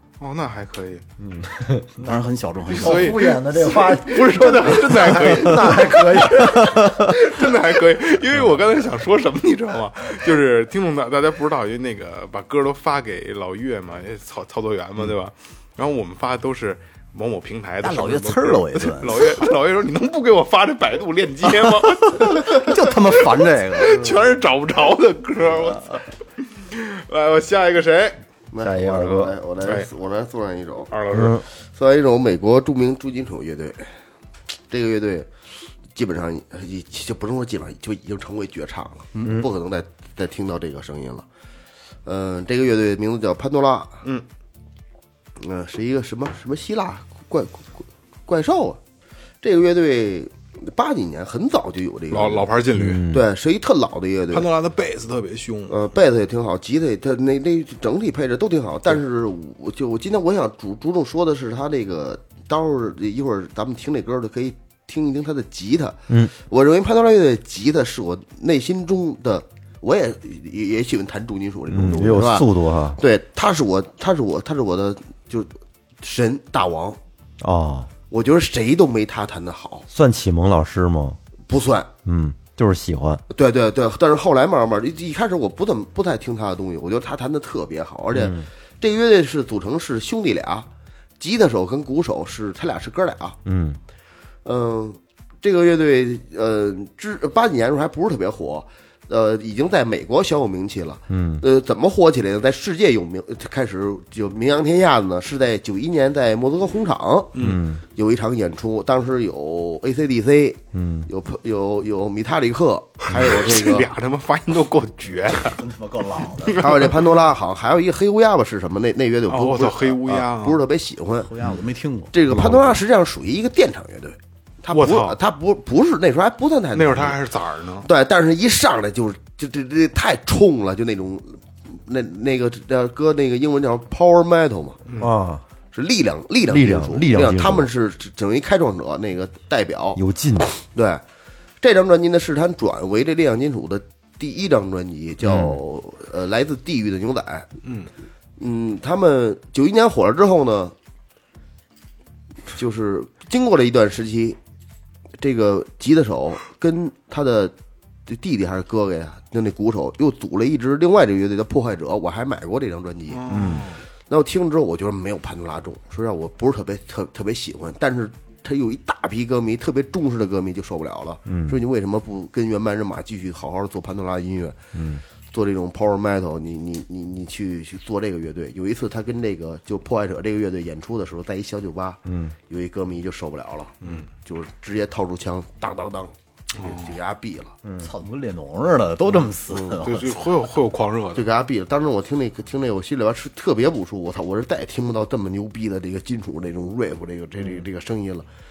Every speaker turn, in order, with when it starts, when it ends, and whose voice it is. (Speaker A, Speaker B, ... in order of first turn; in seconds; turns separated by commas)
Speaker A: 0.2-1.0, Speaker B: 1.2-2.1, Speaker C: 2.0-6.9, Speaker A: 2.7-23.2, Speaker B: 2.7-6.8, Speaker C: 17.8-19.4, Speaker C: 21.5-24.0, Speaker A: 23.7-26.0, Speaker A: 26.6-28.2, Speaker D: 28.5-30.9, Speaker B: 28.6-29.3, Speaker A: 29.6-29.9, Speaker A: 30.9-31.4, Speaker B: 31.1-31.4, Speaker D: 31.7-33.9, Speaker D: 34.7-35.3, Speaker D: 35.9-41.2, Speaker D: 42.0-44.0, Speaker D: 45.4-48.8, Speaker D: 49.4-52.5, Speaker A: 52.1-53.1, Speaker B: 52.8-53.2, Speaker D: 53.1-54.5, Speaker A: 54.3-55.8, Speaker D: 55.7-77.0, Speaker B: 71.7-73.0, Speaker B: 77.4-77.9, Speaker D: 78.1-79.9, Speaker B: 79.9-81.2, Speaker D: 81.5-81.9, Speaker B: 82.0-83.2, Speaker D: 83.3-90.7, Speaker B: 88.1-88.5, Speaker D: 91.2-93.4, Speaker B: 93.4-93.8, Speaker D: 94.4-113.9, Speaker B: 101.1-101.4, Speaker A: 107.3-107.6, Speaker B: 107.4-107.8, Speaker B: 110.7-111.1, Speaker A: 113.1-115.6, Speaker C: 115.5-116.8, Speaker A: 116.4-116.8, Speaker D: 116.6-121.3, Speaker A: 119.3-120.6, Speaker C: 121.2-122.8, Speaker D: 122.1-127.2, Speaker A: 124.7-125.2, Speaker A: 126.7-127.9, Speaker D: 127.8-134.8, Speaker B: 135.0-135.4, Speaker D: 135.7-141.0, Speaker B: 136.5-137.7, Speaker B: 139.9-140.5, Speaker D: 141.6-147.5, Speaker B: 145.3-145.6, Speaker A: 147.6-147.9, Speaker D: 148.4-150.7, Speaker D: 152.5-154.4, Speaker D: 155.2-157.5, Speaker D: 158.1-163.5, Speaker A: 163.1-163.8, Speaker B: 163.3-163.7, Speaker D: 164.1-174.6, Speaker B: 171.2-171.6, Speaker B: 174.7-175.0, Speaker D: 175.3-187.6, Speaker B: 182.1-182.3, Speaker A: 183.8-184.1, Speaker A: 186.6-187.0, Speaker B: 187.6-187.9, Speaker C: 187.8-190.2, Speaker D: 189.5-189.8, Speaker A: 189.8-191.2, Speaker D: 191.1-198.3